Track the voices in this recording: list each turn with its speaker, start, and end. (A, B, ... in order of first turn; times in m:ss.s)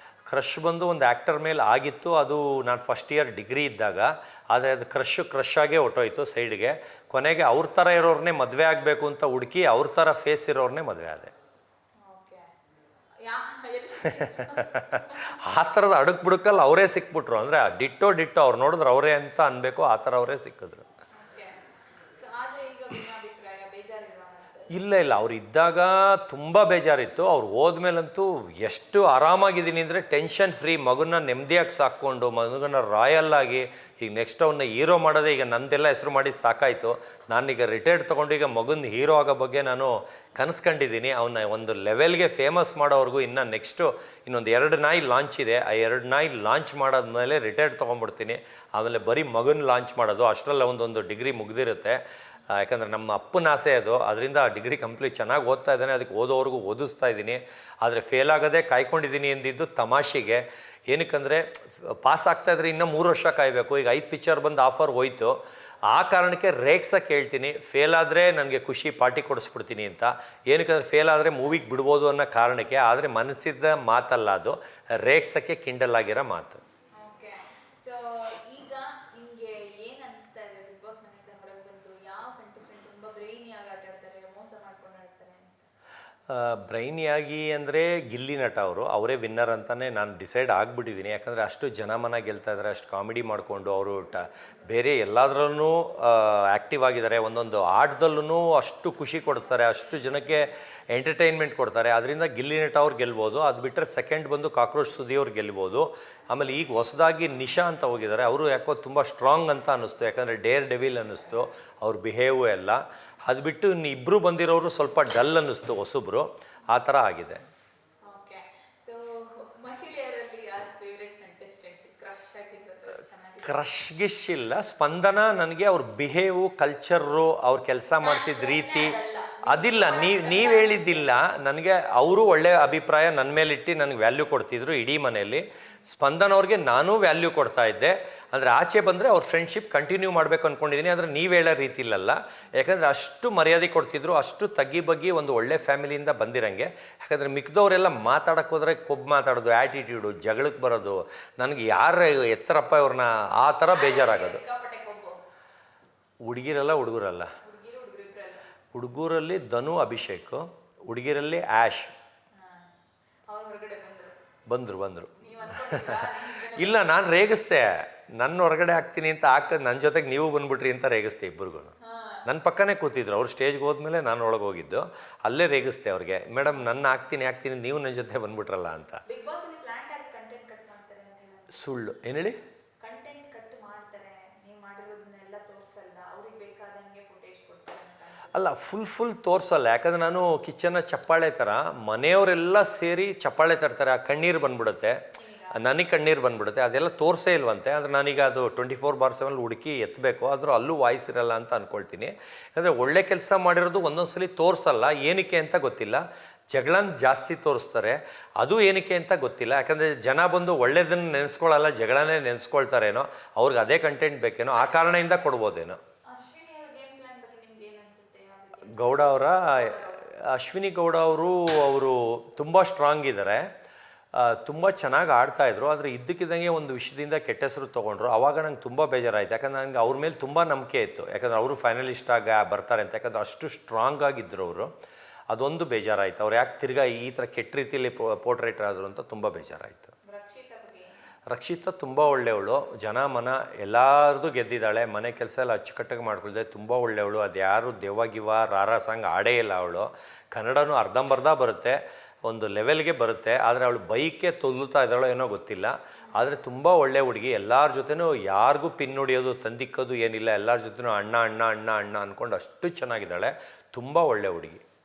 0:00.3-0:11.3 A
0:12.0-0:12.5 B
0:13.2-0:15.3 B
0:14.2-0:20.8 A
0:21.2-0:21.6 B
0:22.1-0:24.8 B
0:24.7-0:52.0 A
0:52.5-1:05.4 A
1:05.9-1:16.6 A
1:17.0-1:25.6 B
1:26.3-1:57.4 A
1:58.0-2:03.6 B
2:03.4-2:34.4 A
2:08.0-2:11.1 B
2:33.7-2:35.2 B
2:36.2-2:37.3 A
2:37.4-2:38.5 B
2:38.7-2:41.9 A
2:42.4-2:42.7 B
2:43.3-2:44.2 B
2:44.5-2:46.0 A
2:45.2-2:46.9 B
2:46.5-2:51.7 A
2:51.8-2:52.2 B
2:52.3-2:59.0 A
2:59.1-3:01.7 B
3:01.5-3:02.4 A
3:02.8-3:08.3 B
3:08.3-3:15.0 A
3:15.1-3:15.6 B
3:15.5-3:35.8 A
3:36.1-3:40.1 B
3:38.7-3:43.5 A
3:44.1-3:54.7 A
3:55.3-3:59.9 A
4:00.1-4:00.9 B
4:01.3-4:24.6 A